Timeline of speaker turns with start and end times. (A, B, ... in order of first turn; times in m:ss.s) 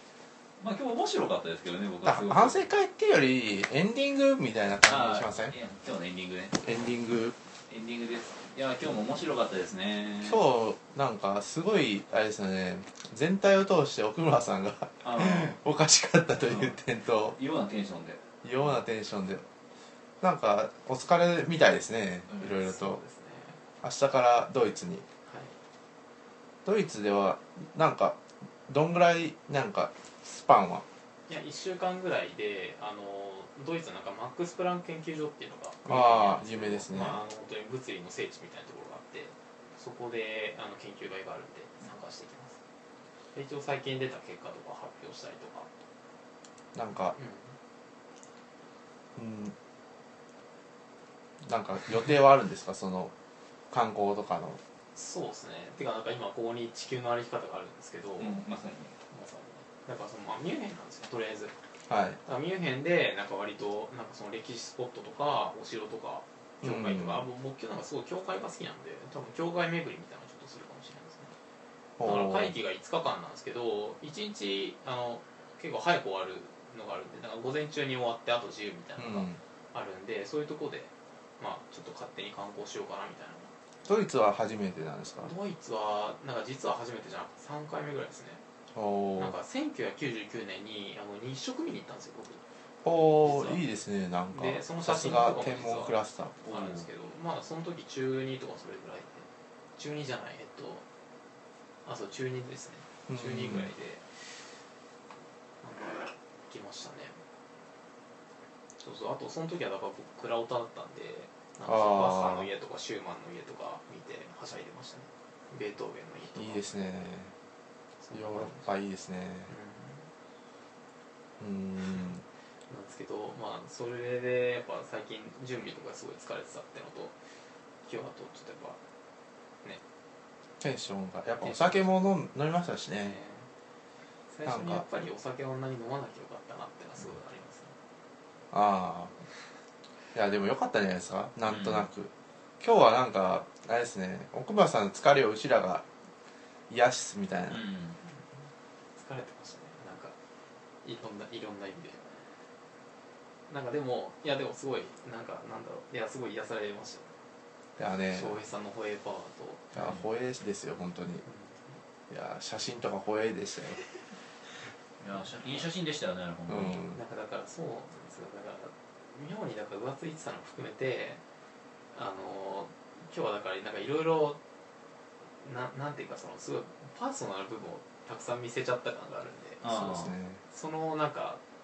0:00.6-0:02.7 A
0:02.0-0:05.5 B
0:04.8-0:06.6 A
0:06.6-0:07.4 B
0:07.7-0:10.4 A
0:10.2-0:17.4 B
0:15.0-0:15.6 A
0:16.5-0:16.8 A
0:17.3-0:18.2 A
0:18.4-0:19.4 B
0:20.2-0:23.0 B
0:22.6-0:23.6 C
0:23.8-0:25.0 B
0:25.2-0:25.6 C
0:26.6-0:30.8 B
0:31.3-0:42.6 C
0:35.8-0:37.2 B
0:43.3-0:45.7 C
0:46.7-0:47.2 B
0:47.1-0:47.6 C
0:49.2-0:49.5 B
0:51.4-0:53.1 B
0:53.7-0:54.6 B
0:54.9-0:58.5 C
0:58.2-0:58.9 A
0:59.1-1:01.5 C
1:01.9-1:02.2 B
1:02.2-1:11.3 C
1:06.6-1:07.2 B
1:12.0-1:12.5 B
1:12.0-1:23.5 C
1:19.0-1:19.4 B
1:23.8-1:25.3 B
1:25.2-1:28.4 C
1:28.7-1:29.4 B
1:29.2-1:32.4 C
1:32.8-1:36.4 B
1:33.2-1:33.6 C
1:34.3-1:40.8 C
1:36.5-1:36.8 A
1:41.8-1:44.2 C
1:43.1-1:43.7 B
1:45.6-1:47.2 C
1:48.8-1:56.8 C
1:51.6-1:52.5 B
1:56.3-1:57.3 B
1:58.0-1:58.7 C
1:58.1-1:59.5 B
1:59.5-2:00.1 C
2:01.4-2:02.2 B
2:02.7-2:07.1 C
2:07.8-2:08.8 C
2:10.6-2:13.1 B
2:11.4-2:11.9 C
2:13.0-2:13.5 C
2:14.3-2:17.7 C
2:14.4-2:14.8 B
2:18.5-2:19.1 B
2:20.1-2:25.8 B
2:21.5-2:21.9 A
2:26.7-2:27.6 B
2:27.5-2:28.0 A
2:29.0-2:30.1 C
2:30.8-2:32.2 C
2:33.5-2:37.1 C
2:37.8-2:38.4 B
2:38.1-2:39.7 C
2:39.7-2:41.2 B
2:41.2-2:41.8 C
2:42.1-2:43.8 B
2:45.0-2:46.8 A
2:46.5-2:47.0 B
2:46.9-2:51.2 C
2:51.9-2:54.4 C
2:55.4-3:01.4 C
2:59.6-3:00.1 A
2:59.9-3:00.4 B